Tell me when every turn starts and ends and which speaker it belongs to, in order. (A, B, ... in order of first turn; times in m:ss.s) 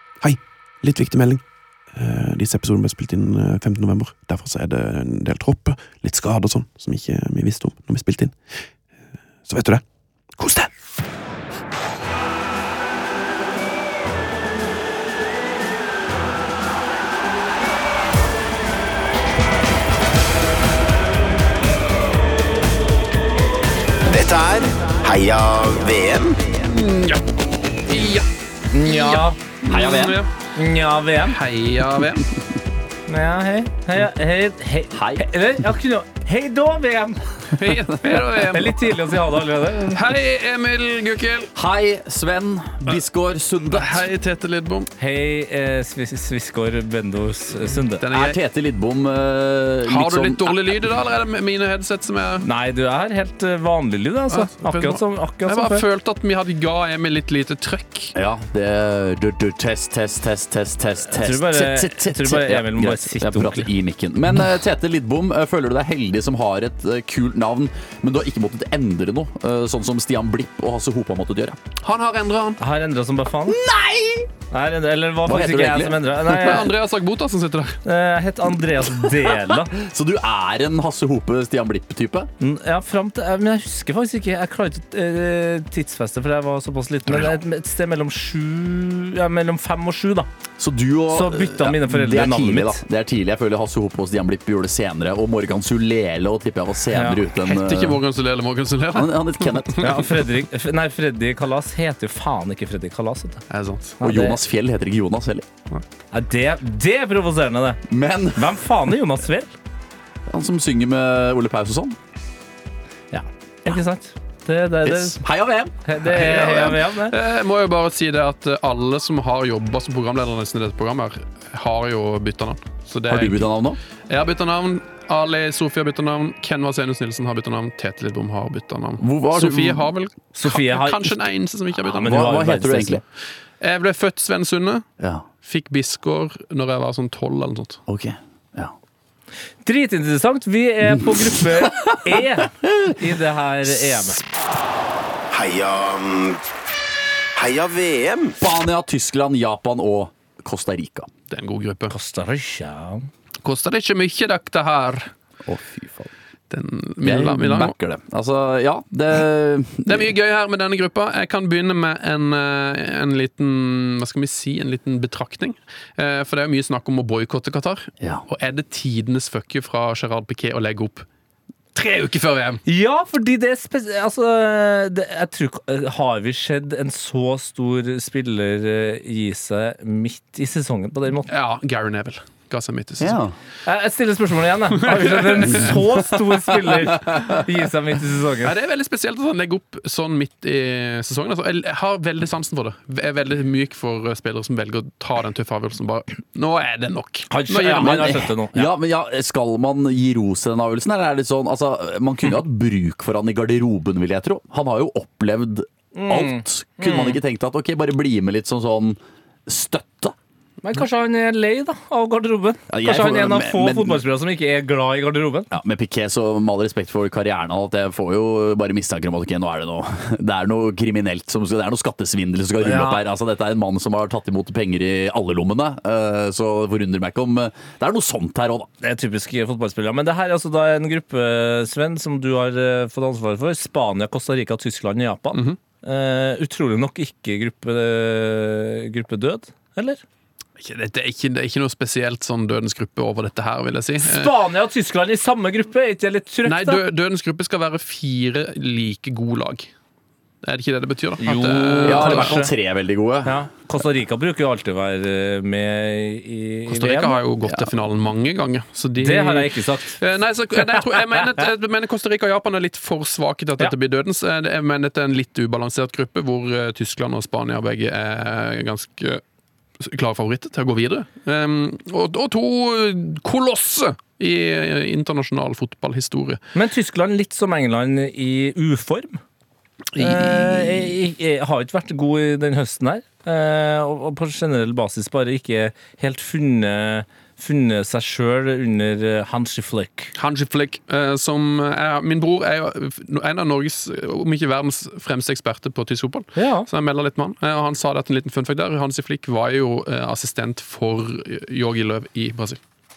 0:00.2-0:01.4 A
0:01.9-0:08.4 A
0:09.5-0:09.8 A
0:10.4-0:10.7 A
0:24.0-0:26.6 B
0:26.6-0:27.2 C
0:27.8-0:28.3 C
0:28.7-0:29.4 D
0:28.8-0:30.3 C
0:29.7-0:30.2 E
0:30.5-0:31.4 D
0:31.2-0:32.3 C
0:33.1-0:37.3 D
0:34.9-0:35.3 E
0:37.5-0:38.9 C
0:38.1-0:40.0 D
0:39.9-0:41.5 C
0:41.5-0:44.0 E
0:43.7-0:44.9 C
0:45.0-0:48.0 D
0:48.0-0:48.4 C
0:48.1-0:50.5 E
0:49.8-0:52.4 C
0:52.4-0:55.8 D
0:54.3-0:58.1 C
0:58.1-1:11.6 E
1:01.1-1:03.7 D
1:11.8-1:12.6 C
1:12.6-1:13.6 D
1:13.5-1:14.3 E
1:14.5-1:16.7 D
1:15.2-1:16.7 E
1:16.3-1:17.8 C
1:17.8-1:19.7 D
1:18.8-1:22.3 E
1:22.4-1:30.3 D
1:30.6-1:38.0 E
1:31.1-1:32.8 D
1:36.9-1:37.2 D
1:37.4-1:40.1 C
1:38.9-1:40.0 E
1:39.8-1:43.4 D
1:43.5-1:44.0 C
1:44.0-1:44.4 D
1:44.0-1:45.4 E
1:46.1-1:47.8 D
1:47.9-1:48.5 E
1:48.3-1:49.5 D
1:50.3-1:52.0 E
1:53.1-1:55.2 D
1:54.8-1:56.6 E
1:55.8-1:57.1 D
1:56.1-2:03.4 C
2:03.1-2:03.8 E
2:04.1-2:12.2 C
2:09.0-2:09.9 E
2:10.3-2:11.2 D
2:11.9-2:13.0 D
2:12.0-2:13.0 E
2:13.6-2:14.8 C
2:15.0-2:15.2 E
2:15.4-2:17.8 C
2:17.9-2:18.7 E
2:19.6-2:24.2 D
2:20.8-2:23.0 E
2:23.8-2:24.2 E
2:25.3-2:26.4 B
2:27.4-2:28.4 B
2:28.4-2:31.1 E
2:31.3-2:31.9 C
2:31.9-2:33.0 D
2:33.4-2:35.1 C
2:35.4-2:36.1 E
2:36.5-2:37.7 C
2:37.0-2:40.1 E
2:39.8-2:51.0 C
2:51.7-2:52.6 C
2:52.6-3:01.3 D
3:01.3-3:03.2 C
3:03.0-3:03.3 E
3:03.6-3:08.5 D
3:04.8-3:05.8 C
3:08.4-3:18.2 C
3:17.3-3:18.7 D
3:17.8-3:30.1 E
3:25.9-3:27.2 D
3:30.6-3:35.5 D
3:32.7-3:34.0 E
3:35.5-3:48.7 E
3:42.6-3:43.0 D
3:48.8-4:00.0 D
4:00.6-4:04.3 C
4:04.0-4:06.8 D
4:06.4-4:09.7 C
4:10.4-4:12.4 C
4:11.2-4:12.5 D
4:11.8-4:13.4 E
4:13.2-4:17.2 D
4:16.7-4:29.2 C
4:19.0-4:20.0 D
4:20.6-4:21.0 D
4:29.8-4:36.4 C
4:36.5-4:39.2 D
4:40.0-4:40.7 C
4:40.0-4:50.1 D
4:50.1-5:02.6 C
4:56.4-4:56.7 D